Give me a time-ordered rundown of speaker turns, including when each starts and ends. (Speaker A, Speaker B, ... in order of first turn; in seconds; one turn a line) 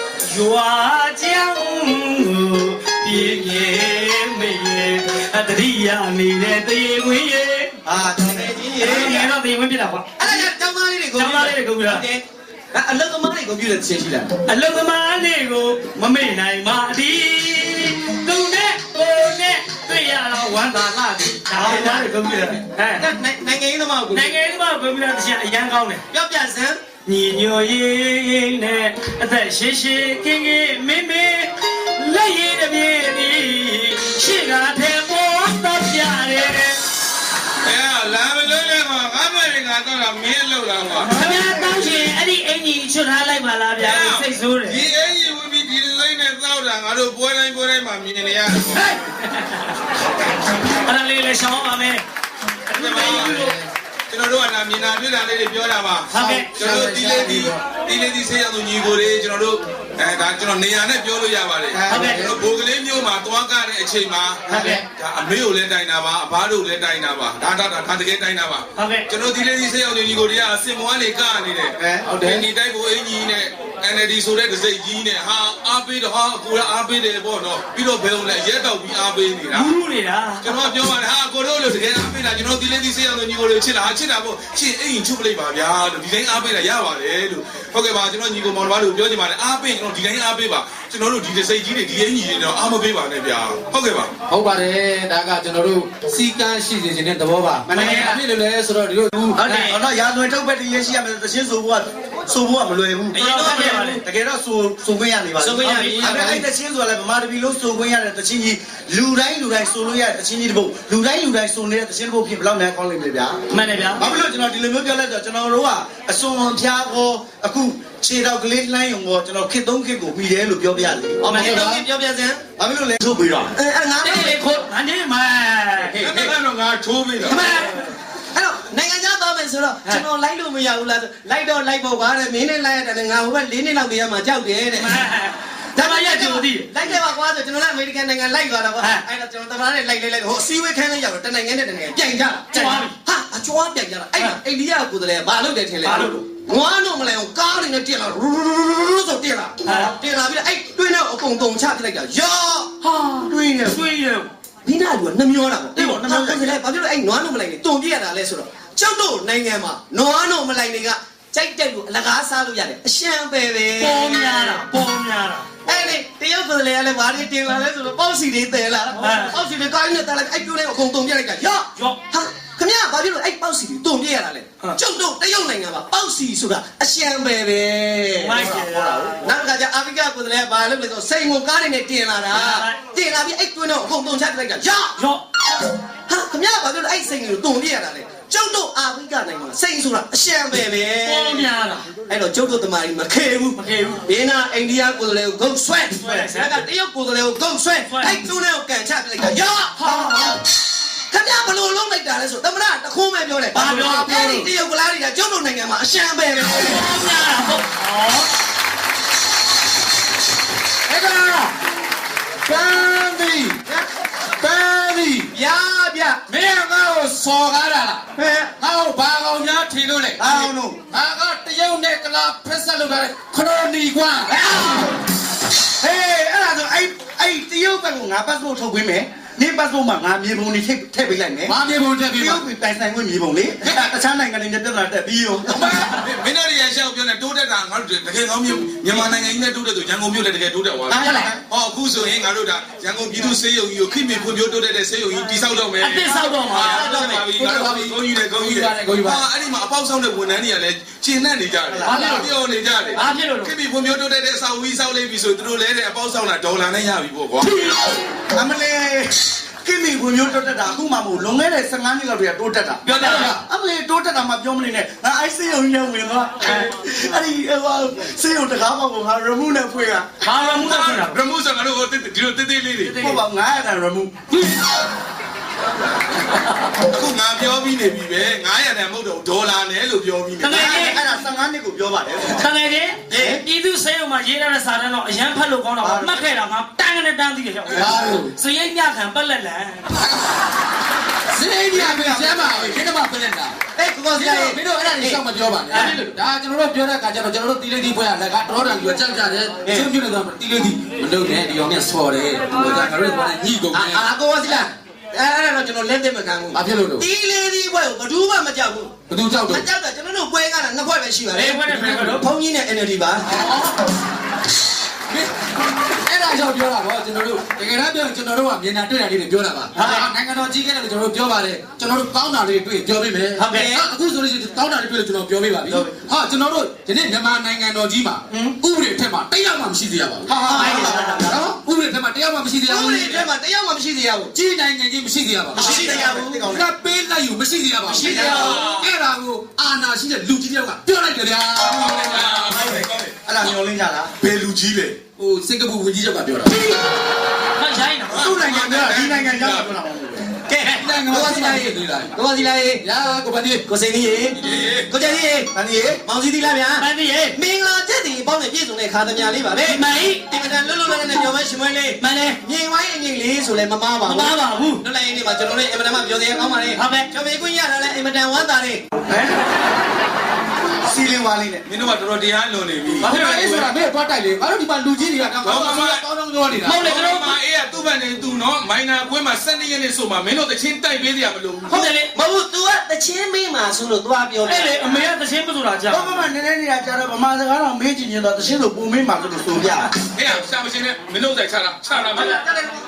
Speaker A: 0.2-7.7
Speaker B: 7.9-9.3
Speaker C: 7.9-9.1
Speaker A: 8.8-10.5
Speaker B: 10.2-14.3
Speaker A: 11.1-12.0
Speaker A: 14.4-23.0
Speaker B: 21.5-24.3
Speaker A: 24.1-26.0
Speaker B: 26.1-26.8
Speaker A: 27.1-36.8
Speaker D: 37.6-41.1
Speaker A: 41.1-44.8
Speaker D: 43.8-48.9
Speaker A: 48.7-49.7
Speaker A: 50.7-52.0
Speaker A: 52.7-53.5
Speaker D: 52.8-53.4
Speaker E: 53.0-53.6
Speaker D: 54.1-79.7
Speaker A: 56.1-56.5
Speaker E: 56.1-57.6
Speaker C: 61.7-62.1
Speaker A: 61.9-62.3
Speaker E: 62.0-62.3
Speaker C: 64.5-64.8
Speaker A: 64.5-64.8
Speaker A: 68.8-69.0
Speaker C: 71.8-72.0
Speaker E: 72.0-72.5
Speaker A: 79.5-80.5
Speaker D: 80.4-94.1
Speaker E: 94.3-99.5
Speaker C: 97.7-98.2
Speaker B: 99.4-99.7
Speaker A: 99.4-99.8
Speaker C: 99.5-113.4
Speaker B: 103.1-103.9
Speaker A: 103.2-104.0
Speaker B: 105.4-106.5
Speaker A: 105.6-106.3
Speaker A: 113.5-114.1
Speaker C: 114.0-121.7
Speaker B: 121.2-122.4
Speaker A: 121.3-121.8
Speaker C: 122.6-123.5
Speaker B: 123.5-124.4
Speaker A: 124.0-126.0
Speaker D: 126.0-127.4
Speaker A: 127.2-127.9
Speaker B: 128.3-134.9
Speaker A: 134.8-136.7
Speaker B: 135.8-152.8
Speaker A: 142.5-142.9
Speaker A: 145.8-146.2
Speaker A: 149.7-149.9
Speaker A: 152.8-154.3
Speaker C: 153.2-153.8
Speaker B: 154.6-164.6
Speaker C: 155.7-156.6
Speaker A: 163.8-165.5
Speaker B: 165.7-178.4
Speaker A: 169.0-169.3
Speaker A: 178.2-179.2
Speaker C: 178.3-179.1
Speaker B: 179.2-185.0
Speaker A: 182.3-182.8
Speaker A: 185.0-185.2
Speaker B: 186.1-191.4
Speaker A: 191.0-191.9
Speaker B: 192.1-200.4
Speaker A: 193.6-194.0
Speaker A: 195.9-196.6
Speaker A: 197.8-198.2
Speaker A: 199.8-200.3
Speaker B: 201.1-206.9
Speaker A: 203.5-204.4
Speaker E: 203.6-204.5
Speaker A: 206.6-208.3
Speaker E: 210.9-211.5
Speaker E: 212.4-213.6
Speaker E: 214.4-215.3
Speaker B: 215.3-216.2
Speaker E: 216.3-218.0
Speaker B: 218.2-218.5
Speaker E: 218.6-224.6
Speaker C: 220.2-220.8
Speaker B: 224.3-224.9
Speaker C: 225.8-231.5
Speaker E: 231.5-232.4
Speaker C: 232.2-235.5
Speaker D: 235.5-257.5
Speaker C: 240.9-241.4
Speaker A: 241.0-241.3
Speaker A: 245.8-246.9
Speaker B: 246.5-247.3
Speaker E: 246.8-249.2
Speaker C: 251.7-252.1
Speaker A: 251.8-252.3
Speaker A: 252.9-253.5
Speaker A: 257.4-258.0
Speaker C: 258.3-270.1
Speaker A: 262.9-263.3
Speaker E: 262.9-263.4
Speaker A: 270.2-271.2
Speaker D: 270.3-273.1
Speaker A: 272.9-273.2
Speaker C: 272.9-274.1
Speaker A: 274.4-274.6
Speaker D: 276.8-280.7
Speaker A: 280.4-281.0
Speaker C: 280.5-282.5
Speaker A: 282.3-290.0
Speaker B: 283.1-283.4
Speaker C: 285.8-286.2
Speaker E: 287.7-288.3
Speaker E: 291.3-293.5
Speaker C: 291.7-292.8
Speaker B: 293.8-295.2
Speaker E: 294.1-304.1
Speaker A: 295.7-296.0
Speaker B: 303.7-308.9
Speaker E: 306.5-307.0
Speaker E: 309.1-309.6
Speaker B: 309.4-313.4
Speaker A: 311.3-312.2
Speaker E: 313.2-313.8
Speaker E: 316.1-330.4
Speaker A: 319.7-320.1
Speaker A: 323.4-323.7
Speaker B: 323.5-323.8
Speaker C: 325.7-326.0
Speaker C: 330.3-331.2
Speaker A: 330.4-331.3
Speaker B: 330.5-331.2
Speaker E: 331.2-333.2
Speaker B: 332.6-334.3
Speaker E: 334.3-342.2
Speaker C: 335.5-336.7
Speaker B: 335.5-336.4
Speaker B: 337.9-338.6
Speaker A: 338.0-338.6
Speaker D: 338.1-338.9
Speaker D: 341.6-343.6
Speaker C: 342.2-344.2
Speaker D: 344.2-345.0
Speaker E: 345.2-346.8
Speaker A: 347.6-348.3
Speaker D: 348.1-349.7
Speaker C: 348.1-350.2
Speaker E: 348.3-348.7
Speaker B: 350.5-352.8
Speaker E: 350.6-352.1
Speaker E: 352.8-353.6
Speaker B: 353.7-355.5
Speaker D: 354.3-354.9
Speaker C: 355.5-356.0
Speaker B: 356.0-368.8
Speaker A: 356.8-357.4
Speaker A: 359.6-360.2
Speaker A: 362.0-362.4
Speaker A: 364.0-364.8
Speaker A: 366.7-367.1
Speaker C: 370.8-371.6
Speaker D: 371.6-373.3
Speaker A: 373.0-373.7
Speaker E: 373.0-376.8
Speaker D: 375.4-376.0
Speaker A: 376.6-377.3
Speaker D: 376.7-381.8
Speaker A: 381.7-382.1
Speaker B: 381.7-385.1
Speaker A: 384.4-386.2
Speaker C: 385.9-389.9
Speaker D: 390.0-392.4
Speaker B: 392.2-392.6